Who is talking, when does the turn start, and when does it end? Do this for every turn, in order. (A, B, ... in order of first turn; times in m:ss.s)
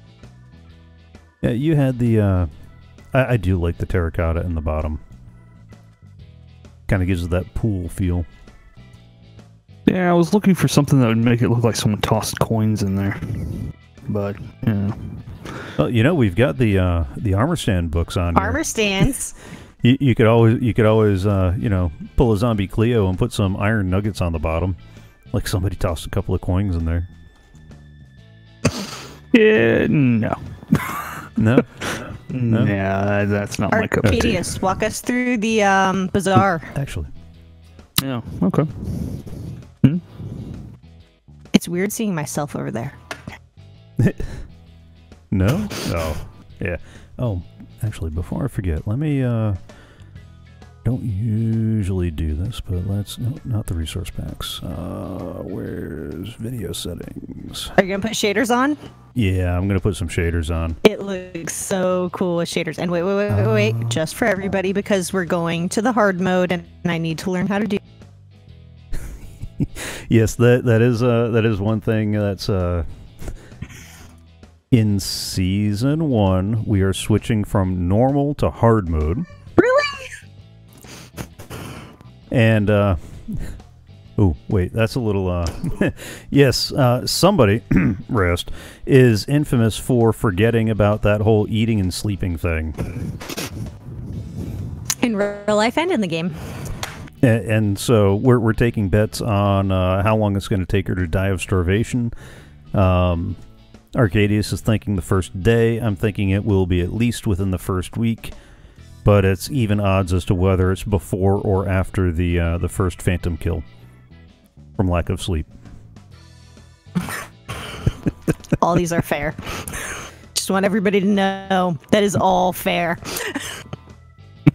0:01.4-0:02.5 A
0:03.1-0:05.0 A
0:06.9-0:08.3 A
0:09.9-0:15.4 B
0:15.8-0:18.6 A
0:18.3-0:19.4 C
0:19.8-0:24.8 A
0:25.3-0:27.1 A
0:29.3-0:34.6 B
0:31.4-0:31.8 A
0:32.4-0:32.7 A
0:33.7-0:36.7 C
0:36.7-0:37.1 A
0:38.0-0:40.6 B
0:41.5-0:43.0 C
0:44.0-0:44.4 A
0:45.3-0:49.6 A
0:50.8-0:57.7 A
0:57.8-0:58.8 C
0:59.1-1:00.8 A
1:00.8-1:07.8 C
1:03.3-1:04.0 A
1:09.6-1:12.9 A
1:14.7-1:19.3 A
1:19.6-1:20.1 C
1:22.3-1:23.6 A
1:24.2-1:32.9 A
1:35.0-1:36.6 C
1:37.2-1:42.1 A
1:42.7-1:43.4 A
1:43.9-1:48.3 A
1:49.0-1:53.6 A
1:54.8-1:55.5 A
1:58.6-2:03.6 C